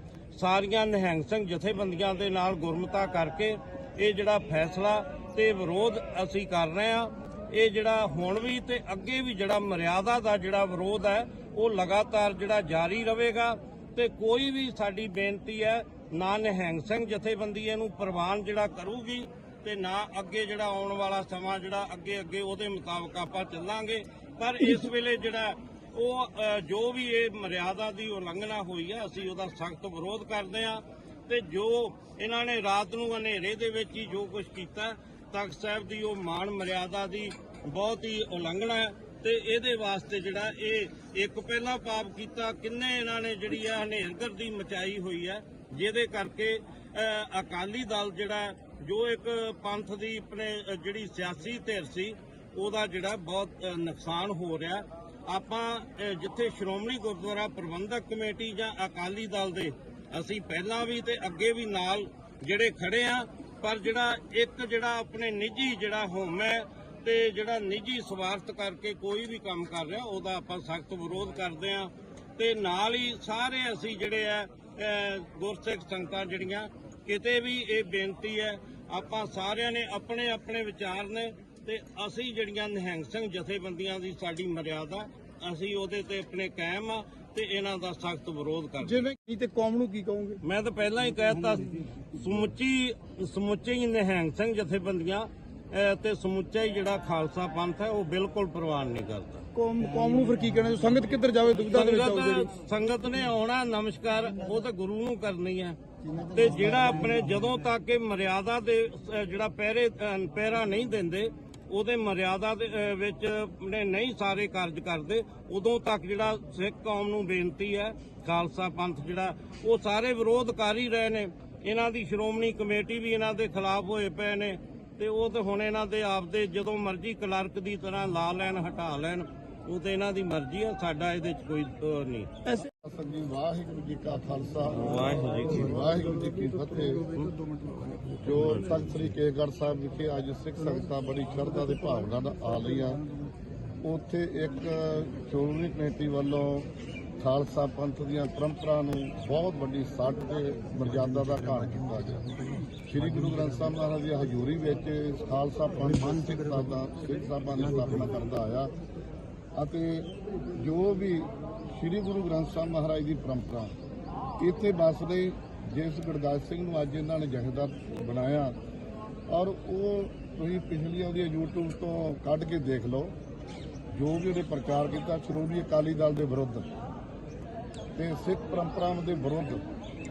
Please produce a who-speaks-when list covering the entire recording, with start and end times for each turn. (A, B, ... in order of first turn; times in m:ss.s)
0:00.3-1:29.1 A
1:28.8-1:30.4 B
1:30.4-1:39.4 A
1:39.5-1:42.5 B
1:41.7-1:45.8 A
1:46.3-2:12.3 A
2:12.8-2:14.9 C
2:14.7-2:15.8 A
2:15.5-2:17.1 C
2:15.8-2:18.6 B
2:18.2-2:23.0 C
2:23.8-2:26.7 C
2:27.2-2:38.7 C
2:39.6-2:43.7 C
2:44.4-2:48.5 C
2:49.3-2:53.1 C
2:53.9-2:56.6 C
2:58.0-2:59.6 C